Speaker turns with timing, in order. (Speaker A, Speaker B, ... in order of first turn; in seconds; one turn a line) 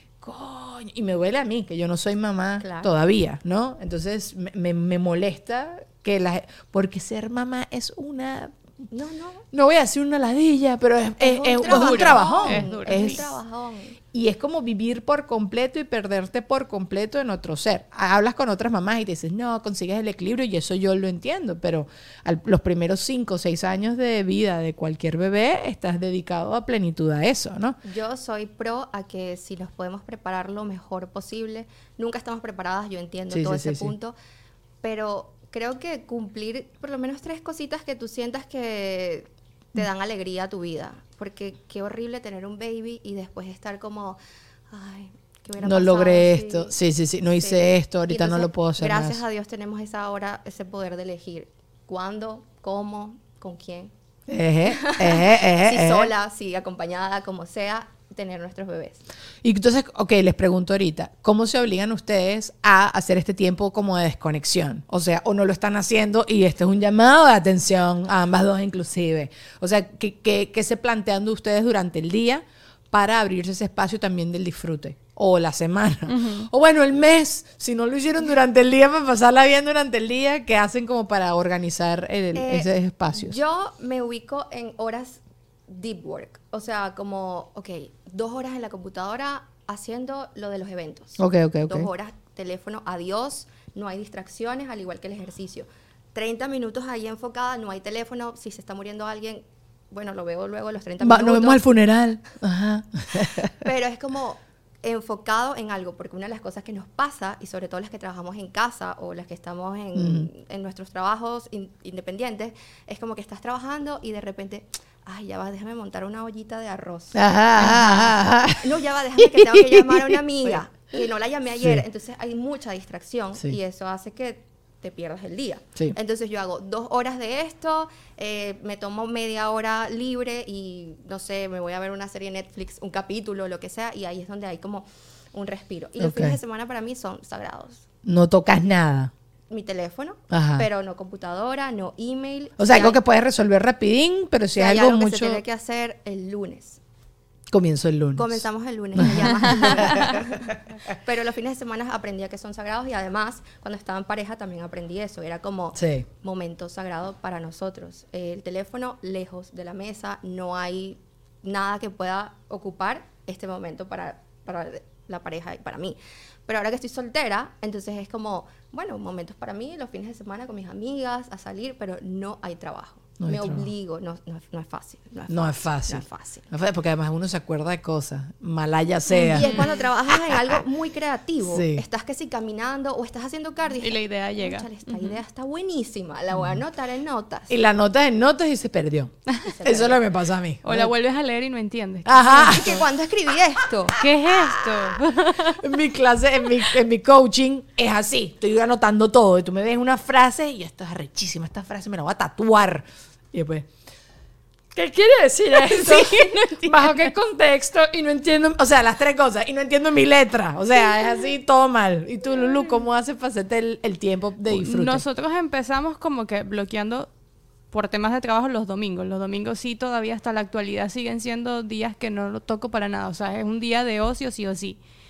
Speaker A: 0.2-8.6
Speaker B: 2.6-2.9
Speaker B: 8.9-9.4
Speaker A: 9.5-13.3
Speaker B: 11.2-14.0
Speaker C: 11.6-13.2
Speaker A: 14.1-27.8
Speaker B: 27.8-34.1
Speaker A: 33.3-33.9
Speaker B: 34.8-44.2
Speaker B: 44.7-46.7
Speaker A: 45.6-49.2
Speaker B: 47.4-53.9
Speaker A: 54.3-56.1
Speaker B: 54.7-59.0
Speaker A: 59.4-83.4
Speaker C: 76.1-76.5
Speaker B: 82.3-101.8
Speaker A: 91.2-91.9
Speaker A: 101.0-103.6
Speaker B: 103.6-137.8
Speaker A: 109.9-110.3
Speaker A: 117.1-120.6
Speaker A: 136.0-136.4
Speaker A: 138.0-139.1
Speaker B: 139.5-143.0
Speaker A: 140.3-140.7
Speaker A: 142.6-145.4
Speaker B: 144.6-146.8
Speaker A: 147.5-150.6
Speaker B: 148.2-176.5
Speaker A: 155.8-156.0
Speaker A: 173.2-173.7
Speaker A: 175.3-180.6
Speaker C: 179.2-179.8
Speaker B: 179.3-187.6
Speaker A: 181.4-181.8
Speaker C: 183.8-185.2
Speaker A: 186.3-186.6
Speaker A: 187.5-190.9
Speaker B: 189.4-190.1
Speaker C: 190.6-192.8
Speaker A: 192.0-192.9
Speaker B: 192.3-194.0
Speaker C: 194.0-195.6
Speaker A: 194.0-203.7
Speaker A: 204.7-215.0
Speaker C: 205.5-207.1
Speaker C: 214.5-217.1
Speaker C: 217.7-224.8